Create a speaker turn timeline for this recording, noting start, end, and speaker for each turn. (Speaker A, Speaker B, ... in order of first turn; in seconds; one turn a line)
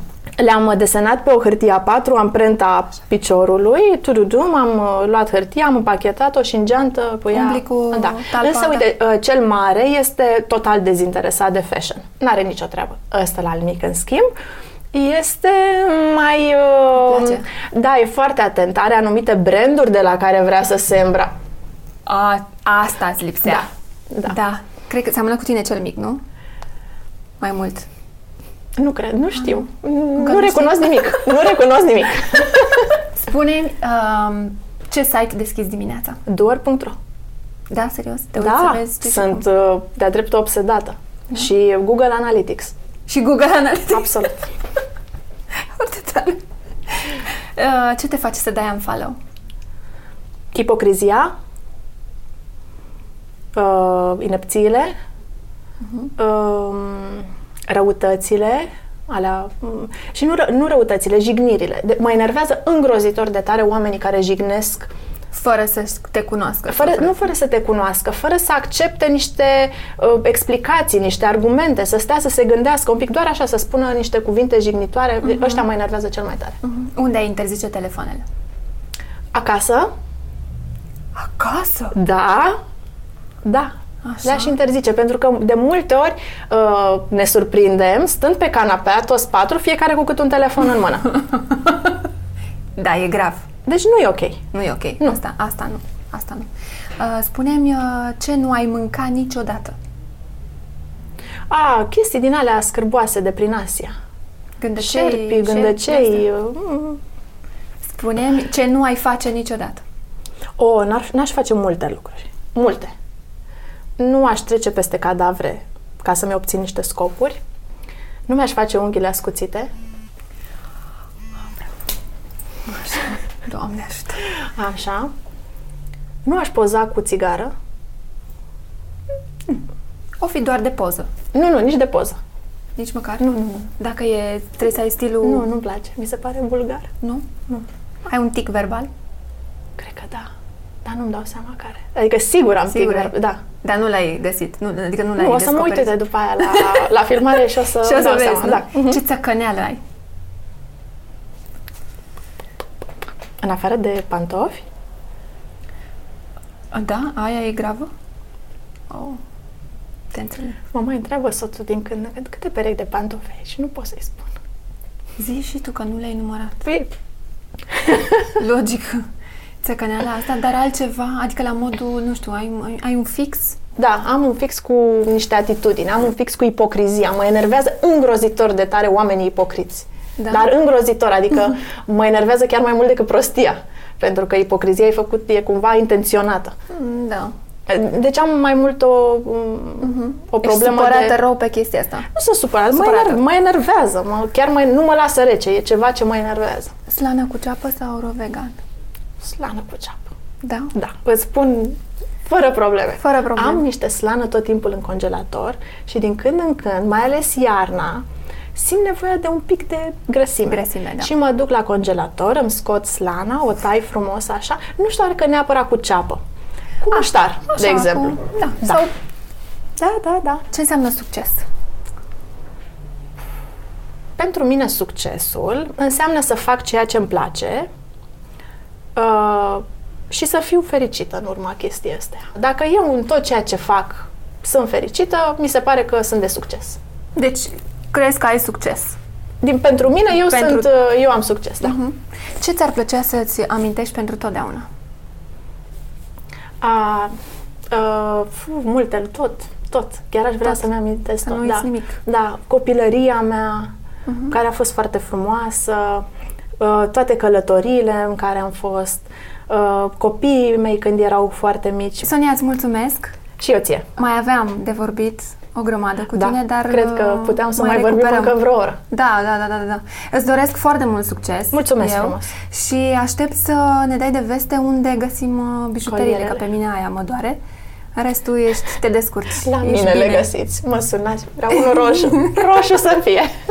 Speaker A: 0.4-14.3
Speaker B: 7.3-8.8
Speaker A: 14.9-21.3
Speaker B: 17.0-17.4
Speaker B: 22.1-23.7
Speaker A: 23.4-24.3
Speaker B: 24.2-26.2
Speaker B: 27.4-27.9
Speaker A: 28.8-32.8
Speaker B: 30.1-31.2
Speaker B: 33.2-36.2
Speaker A: 36.2-37.0
Speaker B: 37.7-39.4
Speaker A: 38.4-42.7
Speaker B: 43.1-44.3
Speaker A: 43.9-44.5
Speaker B: 45.7-49.2
Speaker A: 50.5-51.3
Speaker A: 53.5-54.9
Speaker A: 56.2-64.9
Speaker B: 65.3-67.3
Speaker A: 66.7-76.6
Speaker B: 75.3-75.6
Speaker B: 76.6-78.2
Speaker A: 79.3-79.9
Speaker B: 81.1-82.0
Speaker A: 81.9-82.6
Speaker A: 83.4-83.7
Speaker B: 84.0-84.5
Speaker A: 84.2-91.1
Speaker B: 91.3-92.0
Speaker B: 92.8-93.5
Speaker A: 93.6-94.4
Speaker B: 94.5-99.7
Speaker A: 101.5-103.9
Speaker B: 104.6-106.2
Speaker A: 104.8-107.0
Speaker B: 107.8-109.8
Speaker A: 110.6-112.9
Speaker A: 114.0-117.4
Speaker A: 118.3-119.7
Speaker B: 122.7-124.3
Speaker A: 124.5-125.1
Speaker A: 126.2-127.5
Speaker B: 130.2-131.1
Speaker A: 131.3-132.2
Speaker B: 132.8-135.4
Speaker A: 135.2-136.9
Speaker B: 137.0-137.3
Speaker B: 138.1-138.9
Speaker A: 139.8-140.3
Speaker A: 140.8-143.4
Speaker B: 142.7-146.9
Speaker A: 145.2-149.0
Speaker B: 147.8-149.8
Speaker A: 153.4-154.6
Speaker B: 156.7-157.9
Speaker B: 158.9-159.2
Speaker B: 160.1-160.6
Speaker A: 160.7-164.3
Speaker B: 165.2-166.7
Speaker A: 166.6-166.9
Speaker B: 168.3-169.0
Speaker B: 169.6-173.6
Speaker A: 173.8-186.5
Speaker B: 180.2-180.5
Speaker B: 186.7-187.3
Speaker A: 187.7-191.1
Speaker B: 189.8-192.1
Speaker A: 192.1-196.7
Speaker B: 192.7-193.2
Speaker B: 196.9-198.6
Speaker A: 199.2-200.1
Speaker B: 200.4-200.7
Speaker A: 200.7-208.0
Speaker B: 203.0-203.6
Speaker A: 208.5-216.2
Speaker B: 210.5-211.1
Speaker A: 216.8-218.8
Speaker B: 216.9-218.9
Speaker B: 219.8-221.4
Speaker A: 224.2-227.7
Speaker A: 228.9-236.8
Speaker B: 237.2-239.0
Speaker A: 239.4-241.8
Speaker B: 240.1-240.7
Speaker B: 241.6-244.7
Speaker A: 246.6-247.1
Speaker A: 247.7-253.7
Speaker B: 251.2-252.0
Speaker B: 254.1-254.3
Speaker A: 254.3-256.1
Speaker A: 256.6-262.1
Speaker B: 262.0-263.1
Speaker A: 263.4-263.9
Speaker B: 264.0-268.4
Speaker A: 266.1-268.8
Speaker B: 268.9-277.4
Speaker A: 271.5-272.3
Speaker A: 275.8-276.4
Speaker B: 277.9-280.3
Speaker A: 279.4-283.3